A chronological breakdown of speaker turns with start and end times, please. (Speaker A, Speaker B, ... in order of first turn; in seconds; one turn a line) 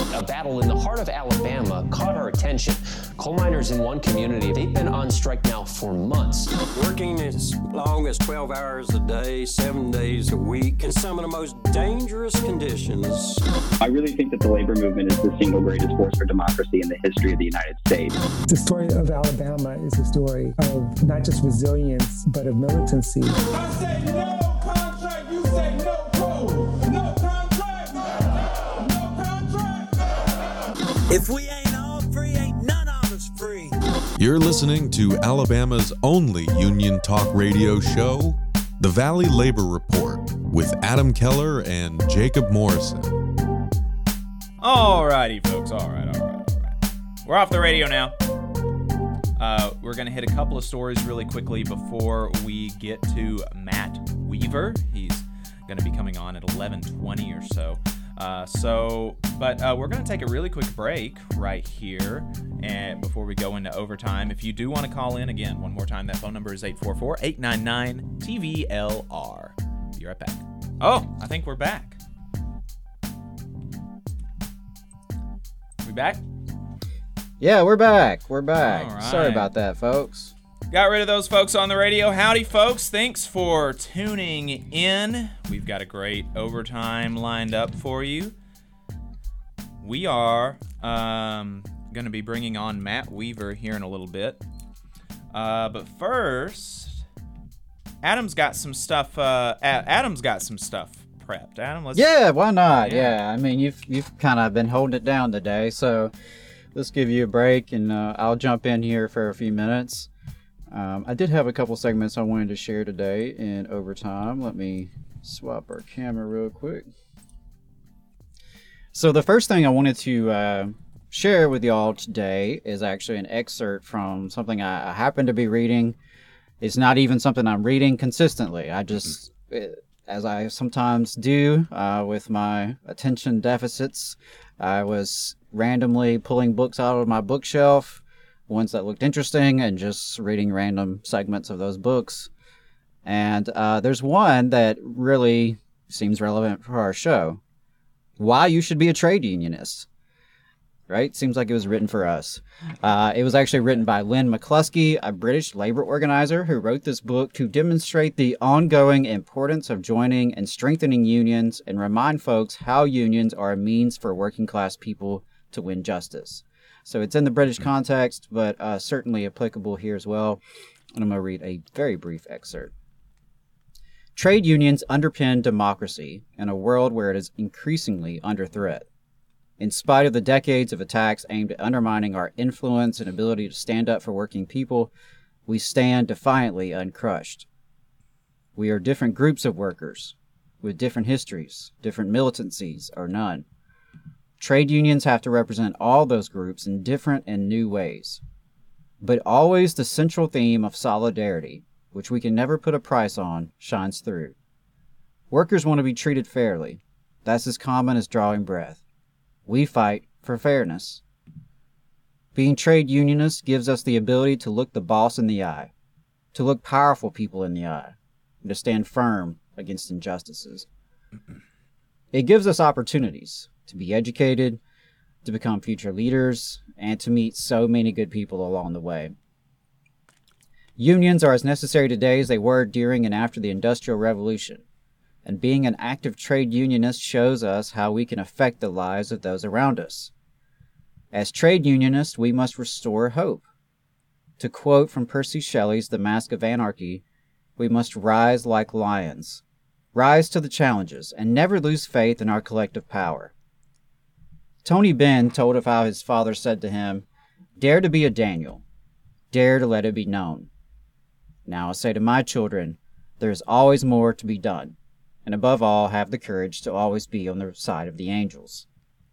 Speaker A: 0.1-6.6
Speaker B: 6.7-13.4
Speaker C: 13.8-18.2
Speaker D: 18.5-23.5
Speaker B: 23.5-30.1
Speaker B: 31.1-33.8
Speaker E: 34.2-43.2
Speaker F: 44.6-48.1
Speaker F: 49.4-72.0
Speaker F: 75.8-76.2
Speaker G: 77.4-80.3
Speaker F: 78.6-79.5
Speaker F: 80.7-88.3
Speaker F: 89.8-94.4
Speaker F: 95.3-97.0
Speaker F: 98.0-102.1
Speaker G: 101.9-106.1
Speaker F: 102.8-103.1
Speaker G: 106.7-110.1
Speaker G: 110.7-116.9
Speaker G: 118.9-126.0
Speaker G: 126.6-142.3
Speaker G: 143.1-147.4
Speaker G: 148.2-149.9
Speaker G: 150.9-170.4
Speaker G: 170.9-172.7
Speaker G: 174.2-178.9
Speaker G: 179.6-184.9
Speaker G: 185.5-187.5
Speaker G: 188.6-193.4
Speaker G: 194.4-198.2
Speaker G: 199.0-204.3
Speaker G: 205.3-208.8
Speaker G: 209.5-211.0
Speaker G: 212.3-215.7
Speaker G: 216.3-220.7
Speaker G: 222.1-224.6
Speaker G: 225.2-229.1
Speaker G: 230.8-234.6
Speaker G: 235.2-240.1
Speaker G: 241.1-243.4
Speaker G: 244.4-247.0
Speaker G: 247.6-249.4
Speaker G: 249.9-253.3
Speaker G: 254.6-257.1
Speaker G: 257.6-258.6
Speaker G: 259.3-260.5
Speaker G: 261.5-268.7